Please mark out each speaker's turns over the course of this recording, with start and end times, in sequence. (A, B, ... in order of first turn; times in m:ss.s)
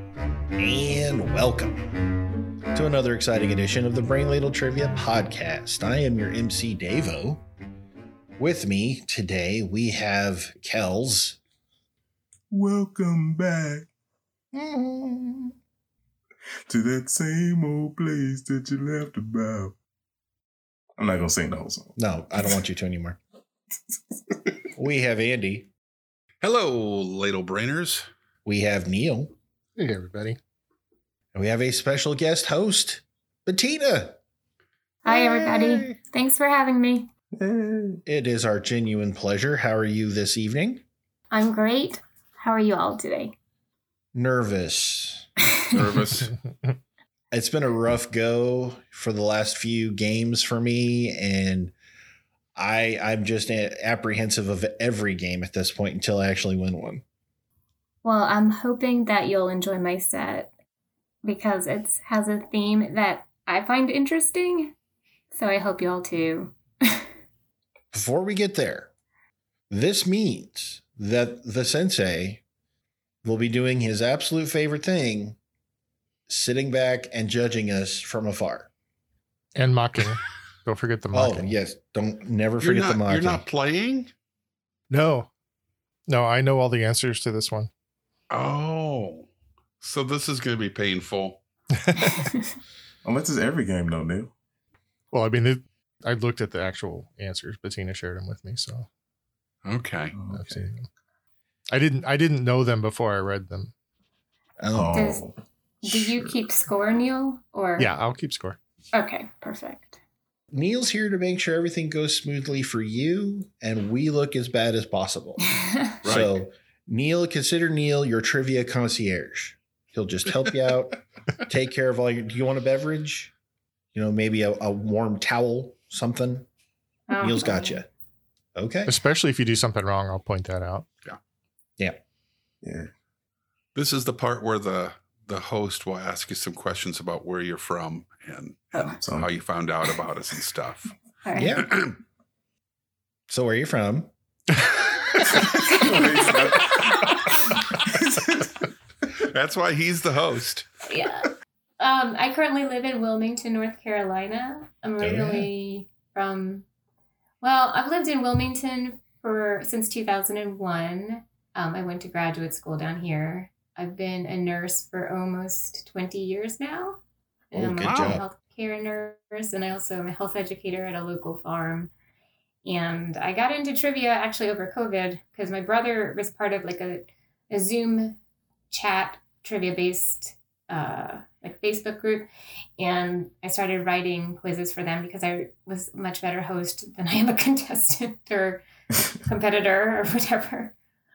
0:00.6-0:01.9 A
0:02.7-0:07.4 A
0:08.4-0:11.4 A
0:12.5-0:13.9 B
0:14.5-0:15.6 A
0:16.7-0:19.8 B
0:21.0-0:22.0 B
0:22.0-0:23.2 A
0:24.8-0:25.7 A
0:26.4-0:28.1 C
0:28.4-0:29.3 A
0:29.8-0:30.4 D
0:31.3-0:34.2 A
0:35.0-0:37.1 E
0:35.1-0:36.0 A
0:37.3-0:38.0 B
0:38.1-0:40.8 A
0:41.3-0:43.4 E
0:44.1-0:45.3 A
0:45.7-0:46.3 C
0:47.3-0:51.7 A
0:52.6-0:57.0 A
0:58.0-1:00.5 E
1:01.2-1:04.7 E
1:05.3-1:07.1 E
1:07.9-1:08.9 A
1:09.7-1:12.4 A
1:13.2-1:15.4 A
1:16.3-1:18.7 A
1:19.6-1:21.5 D
1:21.1-1:23.4 A
1:22.6-1:24.1 C
1:24.9-1:25.3 D
1:26.1-1:27.7 D
1:28.3-1:29.3 C
1:29.8-1:31.4 C
1:31.8-1:32.4 D
1:33.0-1:34.3 B
1:35.1-1:38.9 D
1:39.6-1:40.2 C
1:40.1-1:40.7 B
1:40.3-1:40.9 D
1:41.7-1:43.7 D
1:44.6-1:45.2 A
1:44.7-1:46.4 B
1:44.9-1:45.2 E
1:45.8-1:47.9 E
1:47.8-1:48.6 D
1:48.9-1:50.0 E
1:50.5-1:55.4 A
1:55.6-1:55.9 E
1:56.0-2:03.3 A
1:56.0-1:56.4 C
2:03.9-2:06.5 A
2:07.1-2:07.8 E
2:07.2-2:07.9 A
2:08.6-2:09.0 A
2:08.9-2:10.9 D
2:12.6-2:12.9 B
2:13.8-2:20.9 C
2:19.0-2:19.3 B
2:21.2-2:21.6 E
2:21.4-2:21.7 A
2:21.7-2:22.0 C
2:23.3-2:24.1 A
2:25.2-2:27.4 B
2:27.0-2:27.5 C
2:27.9-2:28.5 B
2:29.2-2:30.7 C
2:30.8-2:36.6 E
2:35.0-2:35.5 A
2:37.4-2:47.0 E
2:47.5-2:51.9 E
2:47.5-2:48.2 A
2:47.8-2:48.2 C
2:52.6-2:58.2 E
2:58.7-3:02.3 E
3:02.8-3:08.6 E
3:09.2-3:10.7 E